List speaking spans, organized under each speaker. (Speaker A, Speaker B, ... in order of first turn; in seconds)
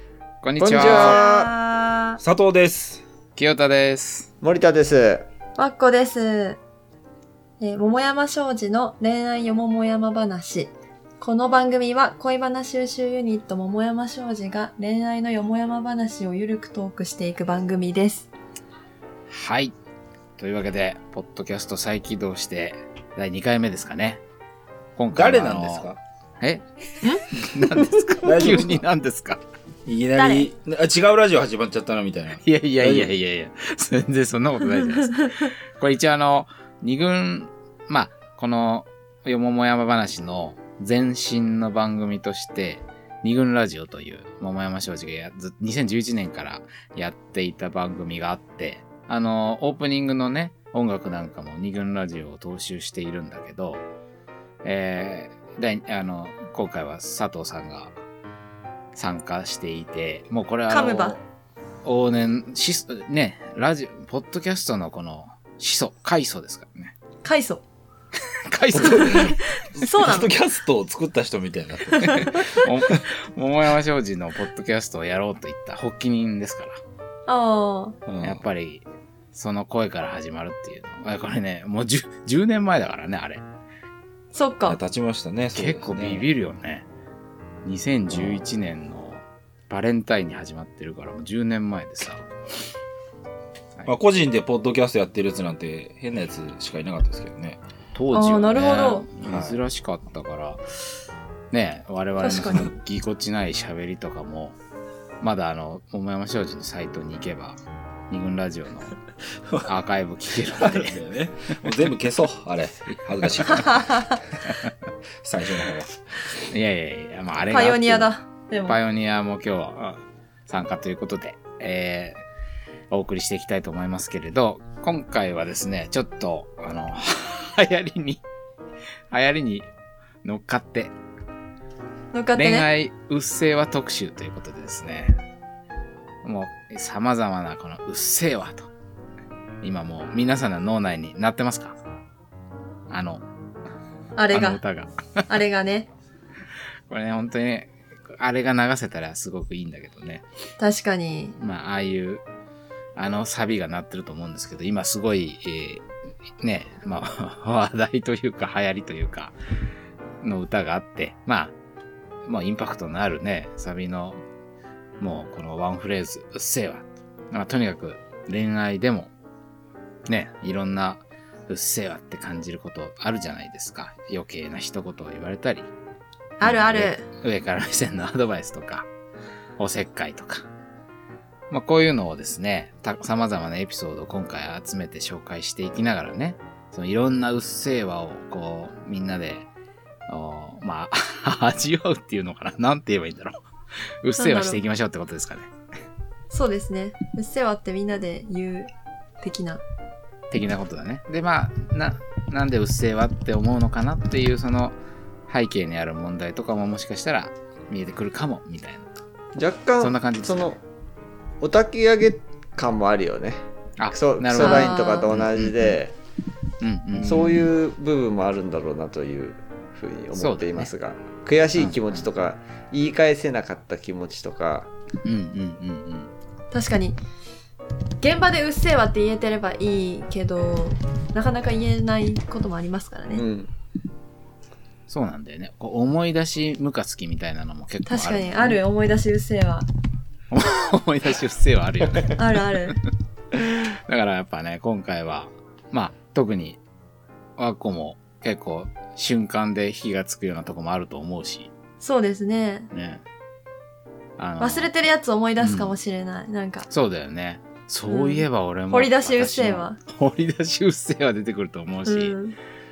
Speaker A: 0.4-1.2, 3.4-4.3, 19.3-19.7, 20.4-24.2, 24.9-25.9, 26.4-26.6, 27.3-29.4, 32.4-53.8, 54.6-57.9, 58.9-61.2, 61.8-66.9, 68.3-69.4, 72.1-76.8, 78.2-83.4, 85.5-86.8, 87.6-92.2, 97.9-100.6, 101.5-104.6, 105.2-108.9, 109.6-111.0, 116.5-118.1, 118.7-122.2, 122.9-128.2, 129.1-129.7, 130.2-130.9, 132.3-135.2, 136.2-138.7, 139.6-141.8, 142.9-143.2, 144.3-145.2, 146.9-150.2, 151.3-152.2, 152.9-155.8, 156.4-159.3, 160.2-161.5, 162.2-164.2, 165.0-169.1, 170.1-175.7, 176.4-178.9, 179.6-180.5, 181.5-189.5, 190.1-193.4, 194.0-195.5, 200.3-204.8, 205.3-208.9, 209.8-210.5, 213.8-215.8, 216.6-217.5, 220.2-220.7, 221.6-222.1, 225.0-226.1, 234.9-238.6, 240.3-242.7, 243.4-246.6, 247.4-251.5, 252.7-253.0, 254.2-254.7, 255.4-255.7, 256.7-262.1
Speaker B: 0.6-1.5, 4.4-5.2, 209.3-210.6, 211.4-215.9, 216.9-224.7, 233.1-233.5
Speaker C: 0.8-2.2, 5.6-6.6, 7.6-18.3, 30.1-30.5, 34.8-35.5, 60.7-61.2, 67.2-67.6, 68.8-70.3, 71.9-72.5, 77.3-78.0, 84.3-84.8, 98.1-99.1, 102.2-102.7, 113.5-114.2, 117.5-118.8, 132.1-132.7, 144.2-144.6, 145.3-145.9, 150.6-151.3, 176.4-177.0, 194.2-194.6, 196.3-199.6, 214.4-215.1, 226.5-227.0, 228.0-233.2, 237.8-239.7, 242.2-242.8, 251.8-252.7, 254.4-256.7, 257.9-259.8, 261.9-262.4
Speaker D: 2.2-3.0, 25.1-26.0, 28.2-28.8, 29.9-33.1, 68.7-73.0, 78.1-78.4, 84.7-86.2, 88.1-88.4, 93.8-97.6, 99.2-99.6, 110.5-114.1, 115.2-116.0